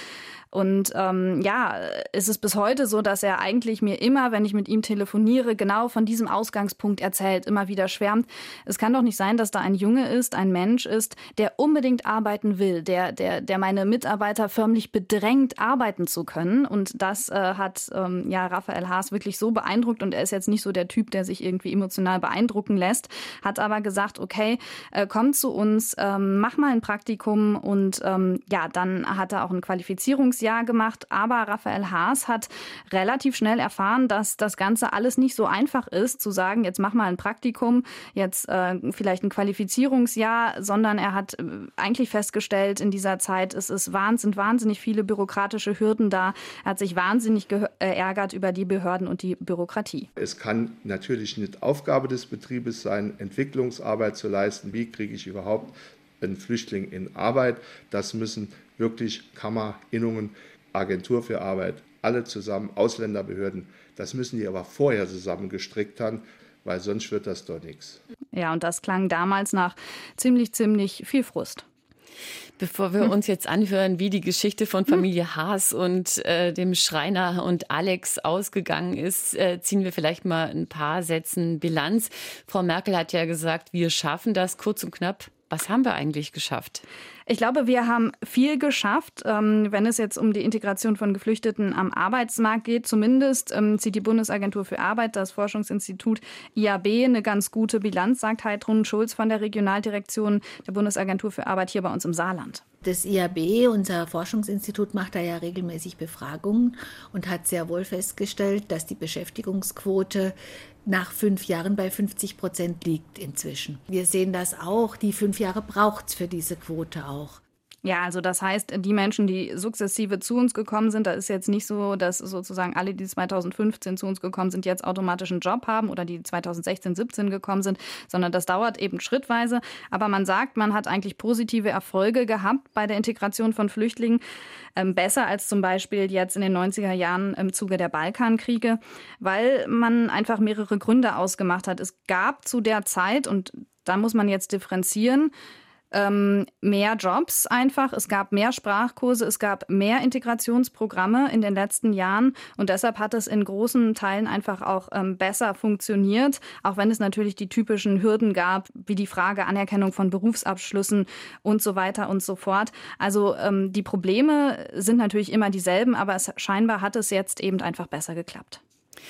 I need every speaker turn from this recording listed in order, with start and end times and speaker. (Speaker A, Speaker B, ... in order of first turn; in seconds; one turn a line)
Speaker A: 0.5-50.1
Speaker B: 50.2-68.0
Speaker A: 68.3-71.6
Speaker C: 72.6-86.8
Speaker A: 87.3-102.6
Speaker D: 102.8-110.3
Speaker D: 110.8-117.4
Speaker A: 117.8-134.2
Speaker A: 134.8-145.3
Speaker A: 145.9-168.6